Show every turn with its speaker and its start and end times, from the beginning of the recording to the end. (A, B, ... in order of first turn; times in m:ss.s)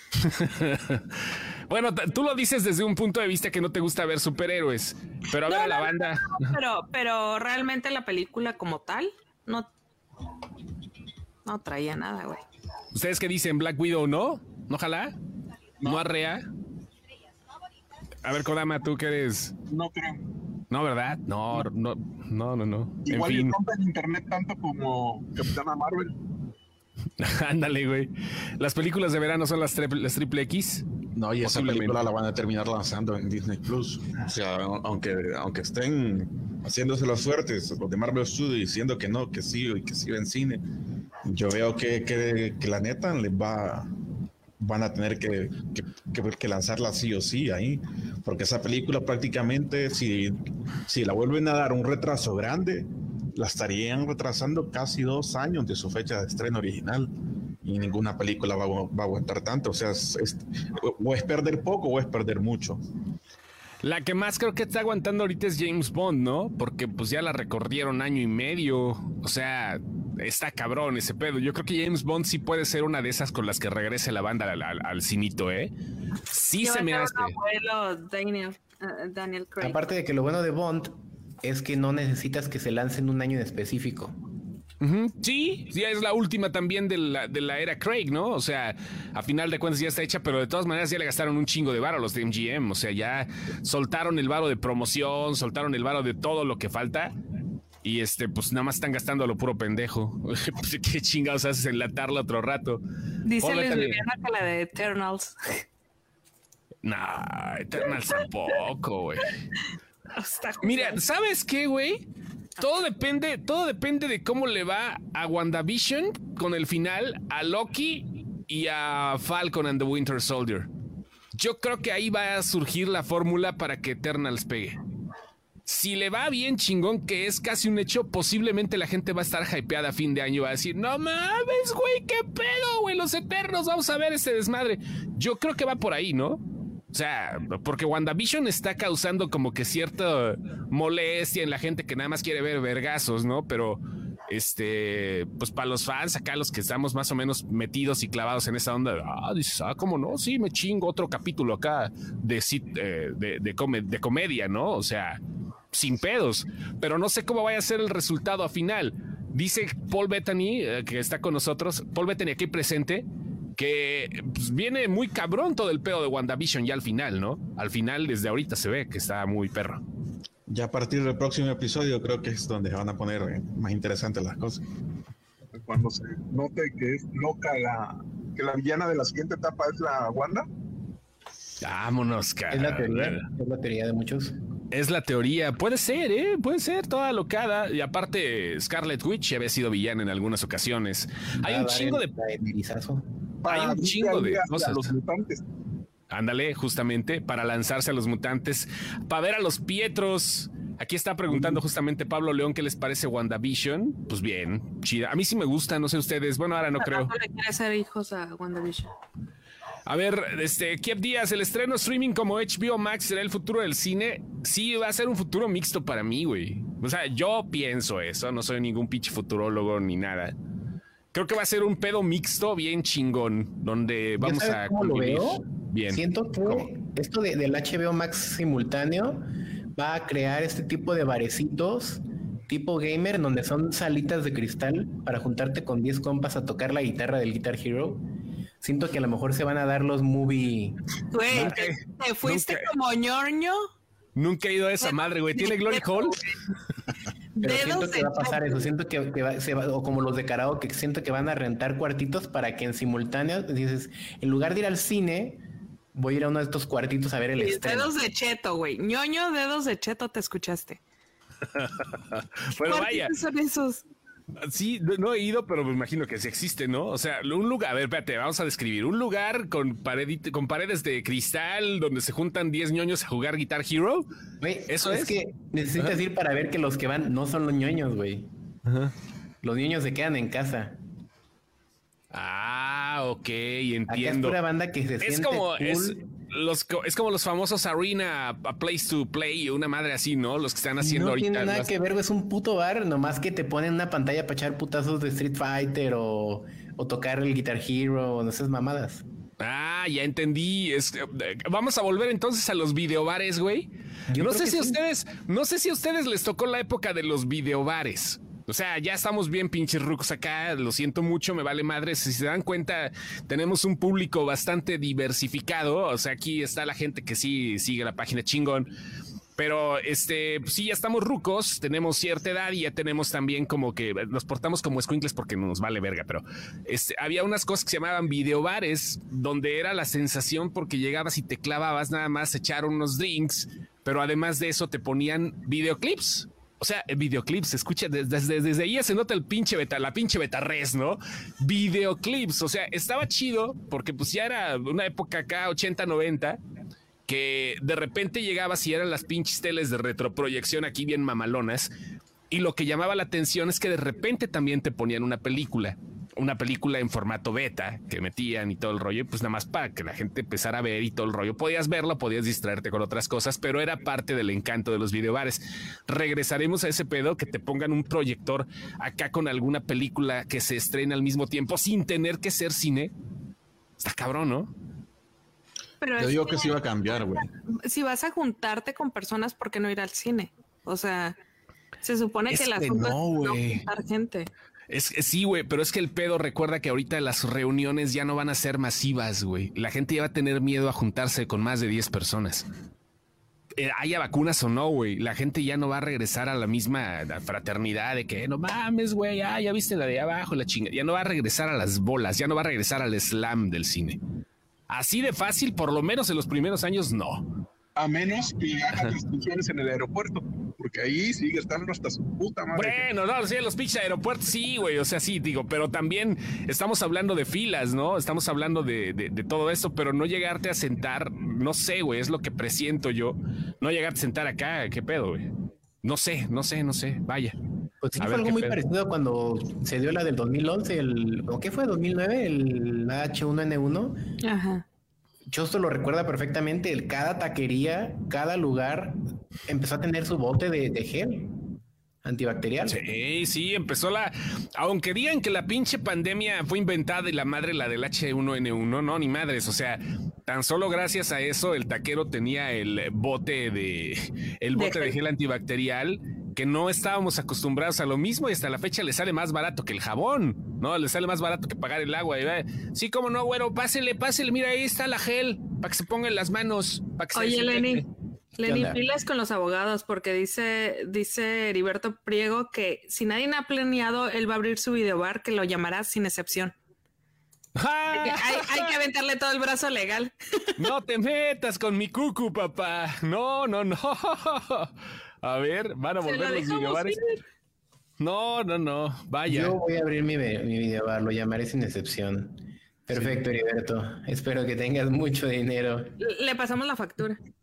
0:00.2-0:06.6 A
0:05.5-0:09.7 B
0:11.4-0:12.4 B
0:12.9-0:15.2 A
0:15.8-0:16.5 A
0:18.2-0:19.5 A
0:19.7-0:20.2 C
0:20.7-0:23.6 A
0:23.0-0:26.2 C
0:27.2-0:30.8 A
0:31.2-0:40.6 D
0:31.4-0:32.0 A
0:41.2-0:43.9 D
0:44.6-0:57.1 D
0:57.6-1:02.8 D
1:03.8-1:15.7 A
1:16.3-1:17.4 A
1:16.6-1:19.8 B
1:19.6-1:24.2 E
1:24.8-1:37.2 A
1:37.8-1:42.8 A
1:43.2-1:45.6 B
1:43.4-1:44.0 A
1:46.8-1:49.3 A
1:50.1-1:51.0 B
1:50.6-1:52.0 A
1:52.6-2:00.7 A
2:01.4-2:04.8 A
2:05.7-2:35.2 A
2:35.7-2:49.8 A
2:50.5-2:54.6 D
2:55.6-3:00.5 C
3:01.6-3:03.3 A
3:02.5-3:04.4 E
3:04.7-3:12.1 A
3:11.4-3:13.1 E
3:13.4-3:15.4 C
3:13.5-3:15.0 A
3:16.1-3:27.1 A
3:26.8-3:28.9 B
3:29.9-3:40.3 A
3:41.1-3:46.7 A
3:44.2-3:58.0 E
3:58.6-4:00.8 E
4:01.1-4:03.7 B
4:01.3-4:01.6 E
4:01.4-4:02.7 A
4:04.2-4:06.2 A
4:04.8-4:06.4 B
4:07.4-4:08.7 B
4:07.4-4:15.4 E
4:15.9-4:17.9 E
4:17.4-4:20.8 B
4:21.5-4:23.1 A
4:22.7-4:23.8 B
4:24.4-4:34.1 A
4:34.4-4:38.3 E
4:34.7-4:35.2 A
4:38.7-4:38.9 A
4:39.4-4:40.8 E
4:42.1-4:44.4 A
4:43.9-4:46.0 E
4:45.0-4:51.7 A
4:50.8-4:59.0 E
4:59.4-5:18.7 A
5:04.1-5:04.8 E
5:19.4-5:46.4 A
5:47.1-5:51.7 A
5:52.3-6:12.9 A
6:13.8-6:14.5 A
6:15.8-6:21.2 B
6:16.0-6:17.3 D
6:21.8-6:24.3 B
6:22.3-6:23.6 A
6:24.7-6:32.5 A
6:33.6-6:44.0 A
6:44.7-6:47.3 A
6:47.8-6:52.8 C
6:52.5-7:05.3 A
7:05.8-7:07.4 A
7:07.8-7:14.0 E
7:08.0-7:08.6 A
7:14.2-7:14.6 B
7:15.3-7:21.4 E
7:22.0-7:22.8 E
7:22.7-7:47.9 A
7:34.5-7:34.9 B
7:47.2-7:47.8 B
7:48.4-7:56.5 B
7:48.4-7:48.8 E
7:57.6-7:58.7 A
7:57.9-8:00.6 B
8:00.6-8:07.0 A
8:06.0-8:07.2 B
8:08.0-8:09.6 A
8:09.3-8:16.0 E
8:12.9-8:13.2 A
8:16.0-8:17.2 B